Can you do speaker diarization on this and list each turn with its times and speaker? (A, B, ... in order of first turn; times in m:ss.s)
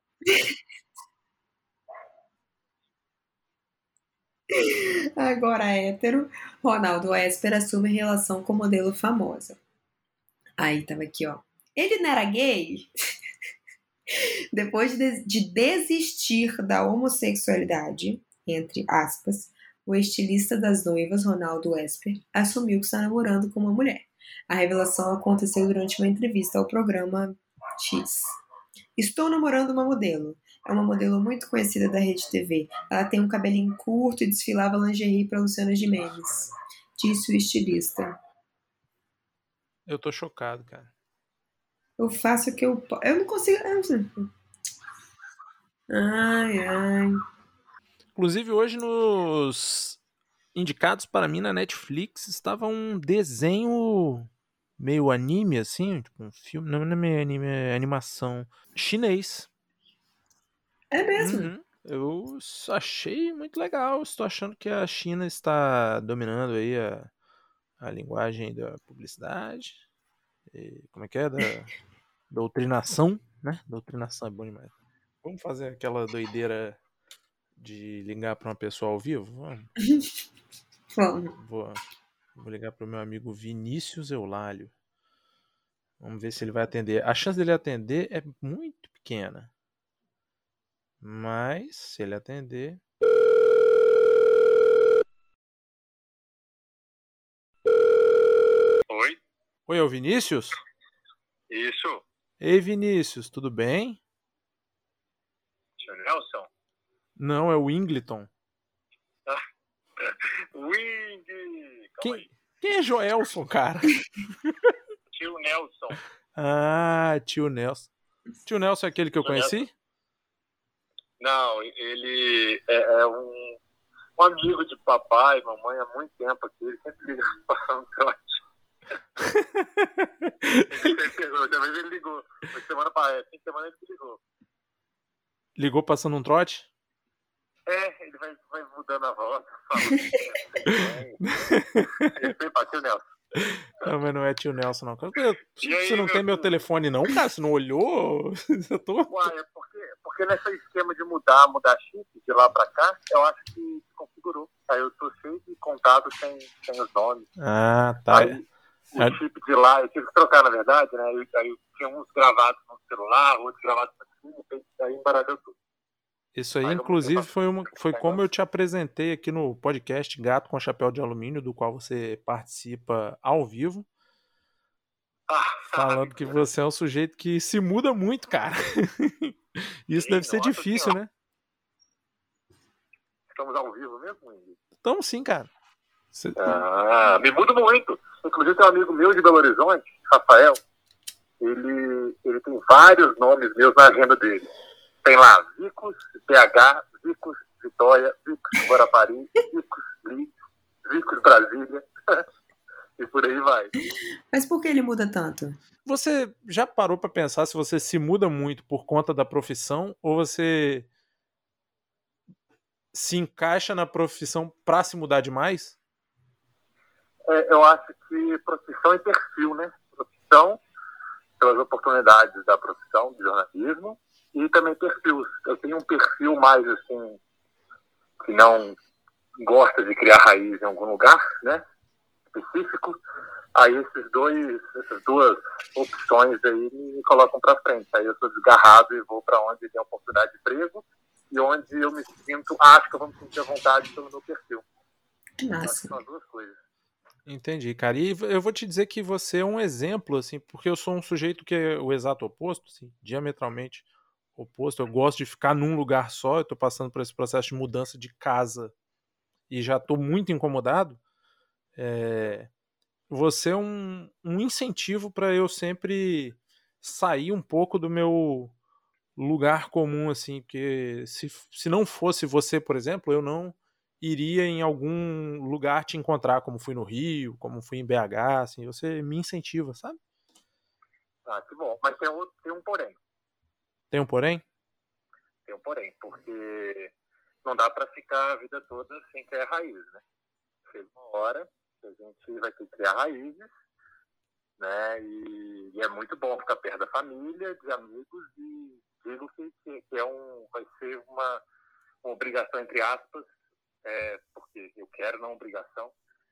0:00.3-0:00.5 A
0:04.5-0:09.6 A
0:10.6-0:12.9 A
0:14.5-0:28.4 A
0:29.0-0:38.2 A
0:39.9-0:40.9 B
0:42.0-0:44.3 A
0:45.9-0:47.2 A
0:48.2-0:50.0 B
0:50.6-0:59.5 B
1:00.9-1:01.5 A
1:01.2-1:07.1 B
1:07.8-1:09.8 B
1:10.5-1:11.7 B
1:12.3-1:14.7 B
1:15.2-1:16.8 B
1:17.6-1:19.7 B
1:21.0-1:21.4 A
1:21.4-1:21.8 B
1:22.4-1:24.7 B
1:26.0-1:29.5 B
1:31.0-1:32.8 B
1:38.9-1:39.2 C
1:39.7-1:40.6 B
1:41.5-1:42.0 C
1:42.4-1:44.0 B
1:45.8-1:46.5 C
1:47.2-1:48.3 B
1:50.0-1:52.3 C
1:52.0-1:54.7 B
1:55.1-1:56.0 C
1:56.4-1:57.9 B
1:58.5-1:59.7 B
1:59.2-1:59.6 C
2:01.2-2:03.6 C
2:04.2-2:08.3 C
2:09.2-2:10.9 B
2:10.7-2:14.2 C
2:15.6-2:16.7 B
2:17.7-2:21.2 C
2:21.2-2:22.3 B
2:22.1-2:23.0 C
2:23.4-2:29.3 B
2:25.6-2:26.5 C
2:29.1-2:37.3 C
2:37.4-2:38.4 B
2:38.1-2:45.6 C
2:46.4-2:53.9 B
2:46.6-2:48.2 C
2:55.3-2:56.4 C
2:55.7-3:01.1 B
3:00.0-3:01.0 C
3:03.3-3:04.6 C
3:04.8-3:05.5 B
3:06.1-3:06.6 B
3:06.4-3:10.6 C
3:11.4-3:14.5 C
3:15.0-3:20.3 C
3:20.8-3:22.2 C
3:23.0-3:23.7 C
3:24.3-3:25.6 A
3:25.8-3:30.9 B
3:32.9-3:35.8 B
3:37.3-3:40.6 C
3:41.4-3:47.2 C
3:48.2-3:48.8 C
3:49.4-3:51.6 C
3:52.3-3:53.0 C
3:53.6-4:04.6 C
4:05.4-4:06.0 A
4:05.6-4:06.6 C
4:07.3-4:18.7 B
4:19.5-4:21.0 B
4:21.8-4:22.5 B
4:23.1-4:28.5 B
4:29.2-4:40.0 B
4:41.3-4:43.0 C
4:43.9-4:44.4 B
4:45.5-4:46.9 C
4:47.4-4:50.0 C
4:50.7-4:53.5 C
4:54.6-5:01.4 C
5:02.0-5:03.2 C
5:03.8-5:05.9 C